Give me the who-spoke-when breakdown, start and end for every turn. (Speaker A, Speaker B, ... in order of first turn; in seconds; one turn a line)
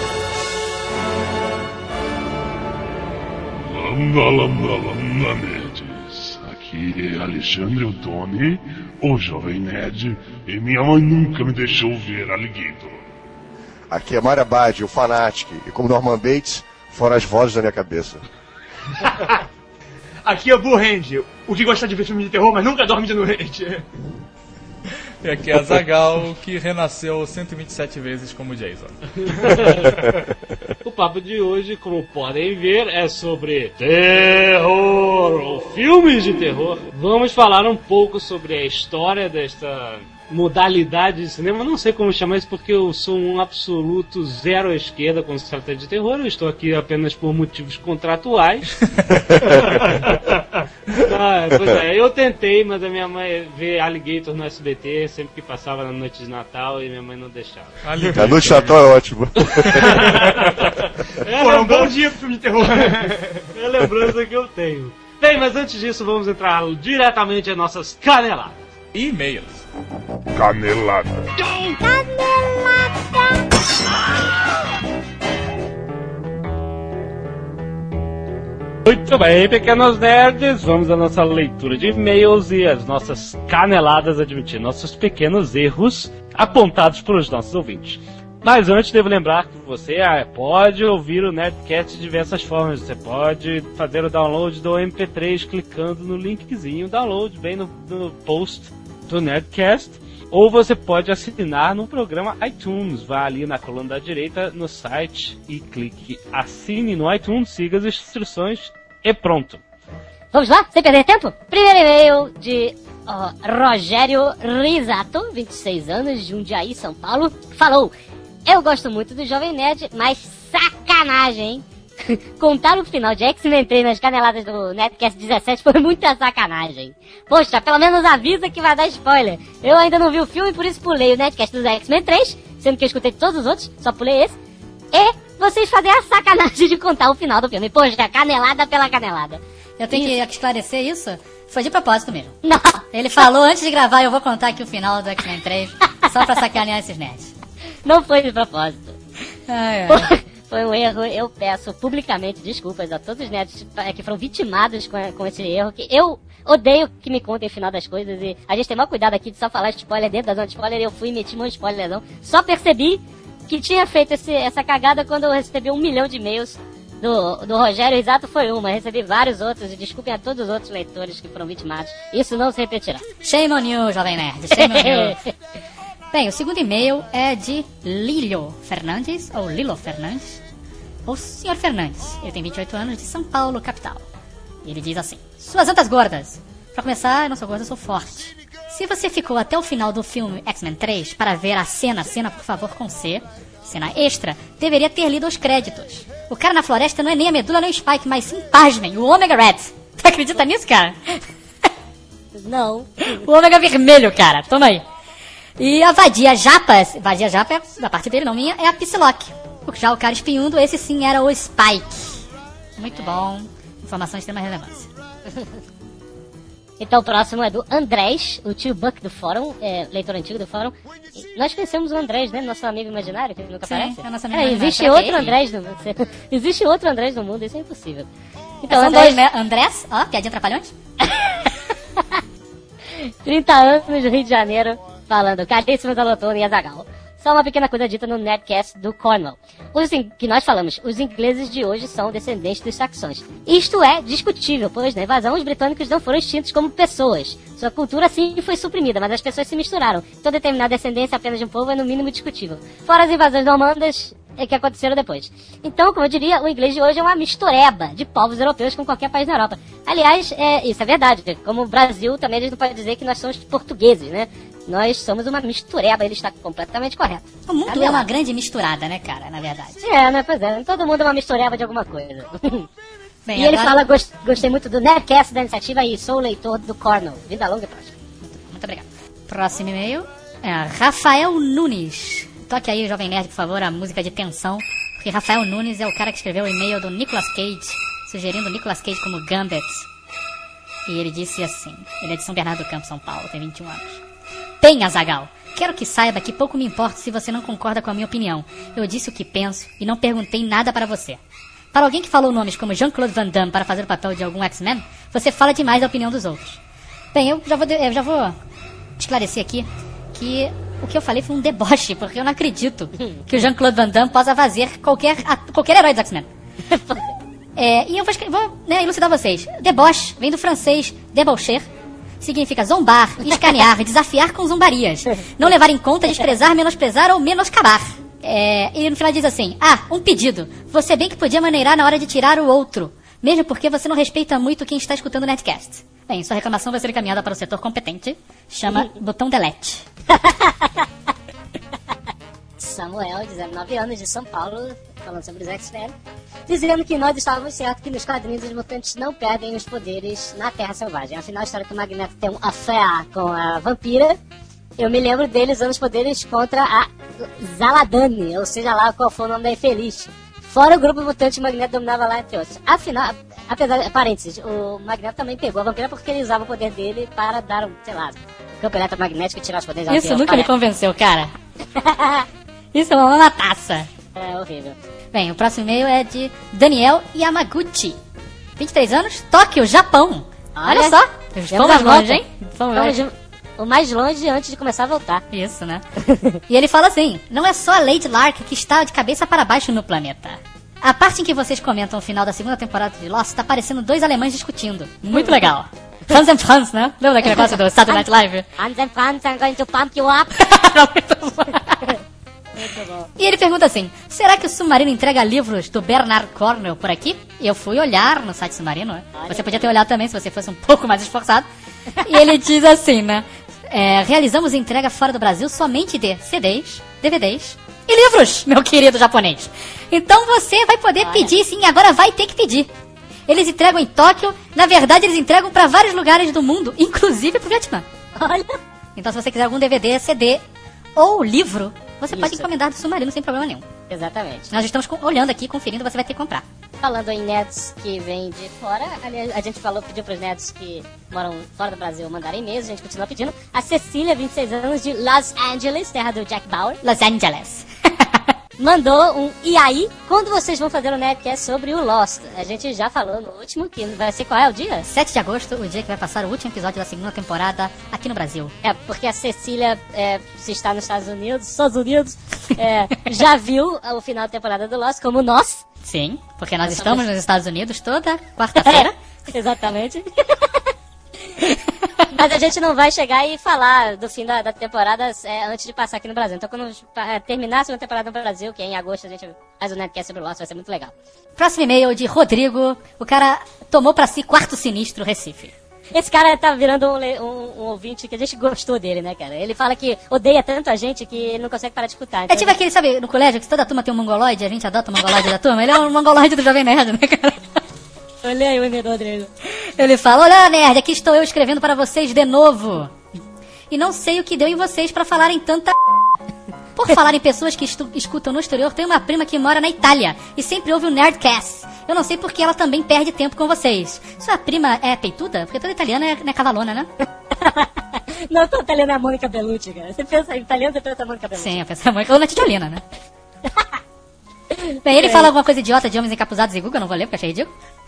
Speaker A: 3.6-13.1
Speaker B: 13.9-18.2
Speaker C: 20.2-23.9
Speaker D: 25.2-29.0
Speaker E: 29.3-30.0
Speaker E: 30.8-48.7
Speaker B: 49.3-49.8
Speaker E: 49.5-50.3
Speaker B: 51.0-51.8
Speaker E: 51.0-57.7
Speaker D: 57.8-58.9
Speaker B: 58.1-60.2
Speaker D: 59.6-60.1
Speaker E: 60.1-60.5
Speaker E: 61.2-62.0
Speaker C: 61.3-63.5
Speaker E: 63.5-68.5
Speaker D: 68.9-69.7
Speaker A: 70.3-71.3
Speaker E: 78.9-109.6
Speaker F: 110.3-117.9
Speaker F: 118.5-134.4
Speaker F: 134.9-139.4
Speaker G: 139.8-142.3
Speaker F: 139.9-140.2
Speaker F: 142.4-143.2
Speaker G: 142.9-147.3
Speaker F: 147.8-149.0
Speaker G: 149.5-150.1
Speaker F: 149.9-173.1
Speaker G: 173.2-175.2
Speaker F: 174.6-175.3
Speaker G: 176.1-180.4
Speaker G: 181.1-184.1
Speaker G: 184.6-201.2
Speaker F: 202.3-203.1
Speaker G: 203.1-204.8
Speaker G: 205.6-212.2
Speaker G: 212.8-214.9
Speaker F: 212.9-213.2
Speaker F: 215.3-215.5
Speaker F: 216.8-228.1
Speaker G: 223.7-225.4
Speaker F: 228.6-229.2
Speaker G: 228.6-230.7
Speaker F: 233.0-268.1
Speaker G: 267.5-269.8
Speaker F: 269.8-272.7
Speaker G: 273.2-273.8
Speaker F: 273.4-278.0
Speaker G: 278.2-289.9
Speaker G: 290.9-294.0
Speaker G: 294.6-301.2
Speaker G: 301.7-306.6
Speaker G: 307.1-308.4
Speaker G: 309.0-316.3
Speaker F: 316.7-317.1
Speaker G: 317.6-321.7
Speaker G: 322.2-339.8
Speaker F: 340.1-340.9
Speaker F: 342.6-345.9
Speaker F: 346.5-354.2
Speaker F: 354.8-370.5
Speaker G: 369.9-371.3
Speaker F: 371.8-372.3
Speaker G: 372.7-373.9
Speaker F: 374.1-374.8
Speaker G: 375.1-378.0
Speaker G: 378.6-383.0
Speaker F: 380.6-381.0
Speaker F: 381.5-385.2
Speaker G: 385.3-385.8
Speaker F: 386.1-386.4
Speaker G: 386.5-398.5
Speaker F: 395.1-395.4
Speaker F: 397.2-398.1
Speaker F: 398.6-400.4
Speaker G: 400.4-401.9
Speaker F: 402.6-403.1
Speaker G: 403.2-411.5
Speaker F: 409.1-409.7
Speaker F: 412.0-412.2
Speaker G: 412.1-422.7
Speaker F: 421.0-421.3
Speaker G: 423.3-427.9
Speaker F: 428.2-428.6
Speaker G: 429.0-430.4
Speaker G: 431.0-433.6
Speaker F: 432.1-432.5
Speaker F: 433.9-434.5
Speaker G: 434.5-436.4
Speaker F: 436.8-446.8
Speaker G: 446.8-448.2
Speaker F: 448.6-454.9
Speaker G: 454.9-458.5
Speaker F: 458.6-465.6
Speaker G: 465.8-468.9
Speaker F: 466.7-467.1
Speaker F: 468.6-470.6
Speaker F: 471.4-480.9
Speaker G: 481.4-485.5
Speaker F: 485.9-492.5
Speaker G: 492.3-497.4
Speaker F: 498.2-499.3
Speaker G: 499.8-503.0
Speaker G: 503.7-505.8
Speaker G: 506.8-516.9
Speaker F: 517.4-517.7
Speaker F: 518.3-521.6
Speaker G: 521.4-522.8
Speaker G: 524.8-527.5
Speaker F: 524.9-525.3